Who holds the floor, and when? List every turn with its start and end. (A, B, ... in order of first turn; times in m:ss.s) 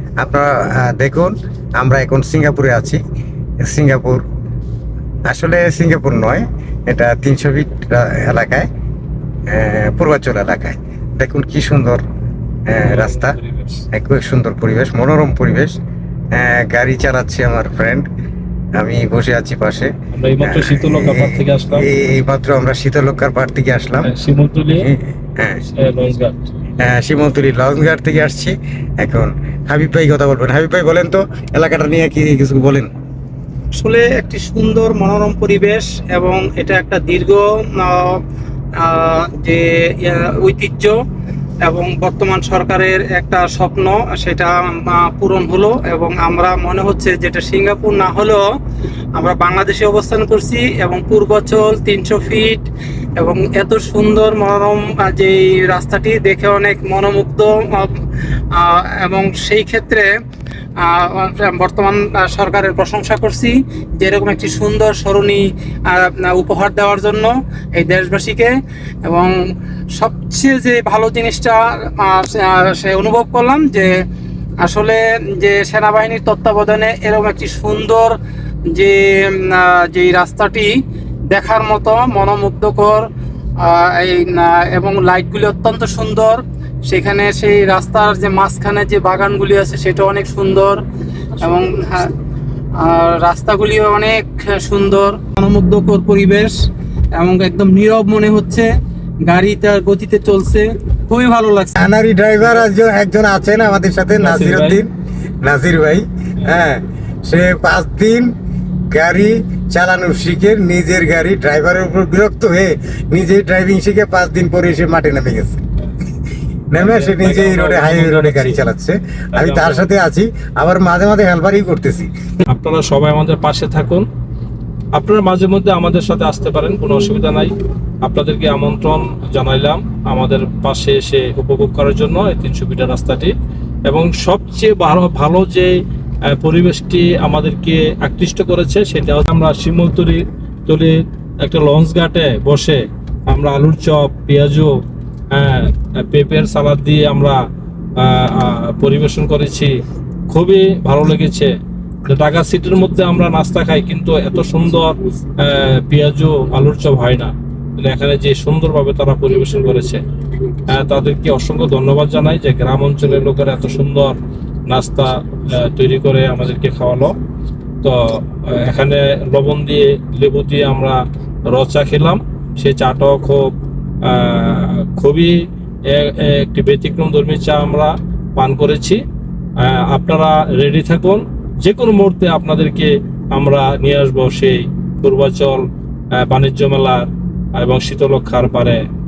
0:00.2-0:03.0 A
0:03.6-0:04.2 A
0:05.3-0:08.7 A
0:09.5-0:12.0 A
0:12.7-0:13.4 A
0:12.8-0:13.8 B
0:13.9-0:15.8 A
0:16.3-0:18.1 A
0:18.8-0:24.1 A
0:20.1-0:21.9 B
0:24.0-0:24.9 B
0:24.8-0:25.6 A
0:25.7-0:26.5 B
0:26.8-0:32.9 A
0:33.7-0:38.2 C
0:38.8-0:41.0 C
0:41.6-0:48.5 C
0:49.2-0:58.0 C
0:58.5-1:00.1 C
1:00.8-1:09.4 C
1:09.9-1:13.9 C
1:14.6-1:18.2 C
1:18.7-1:20.8 C
1:21.3-1:23.1 C
1:23.6-1:30.8 C
1:31.4-1:32.1 C
1:32.8-1:36.6 C
1:37.2-1:38.7 C
1:39.2-1:41.8 C
1:41.8-1:44.9 A
1:44.2-1:44.8 B
1:45.4-1:48.3 A
1:48.9-1:55.6 A
1:56.7-2:02.1 A
1:56.8-1:58.6 B
1:59.4-1:59.9 B
2:02.5-2:04.0 B
2:05.0-2:13.3 B
2:13.9-2:24.8 B
2:25.3-2:27.4 B
2:28.0-2:29.7 B
2:30.3-2:31.5 B
2:32.1-2:40.0 B
2:40.7-2:47.2 B
2:47.8-2:53.5 B
2:54.0-2:59.0 B
2:59.6-3:05.7 B
3:06.2-3:08.8 B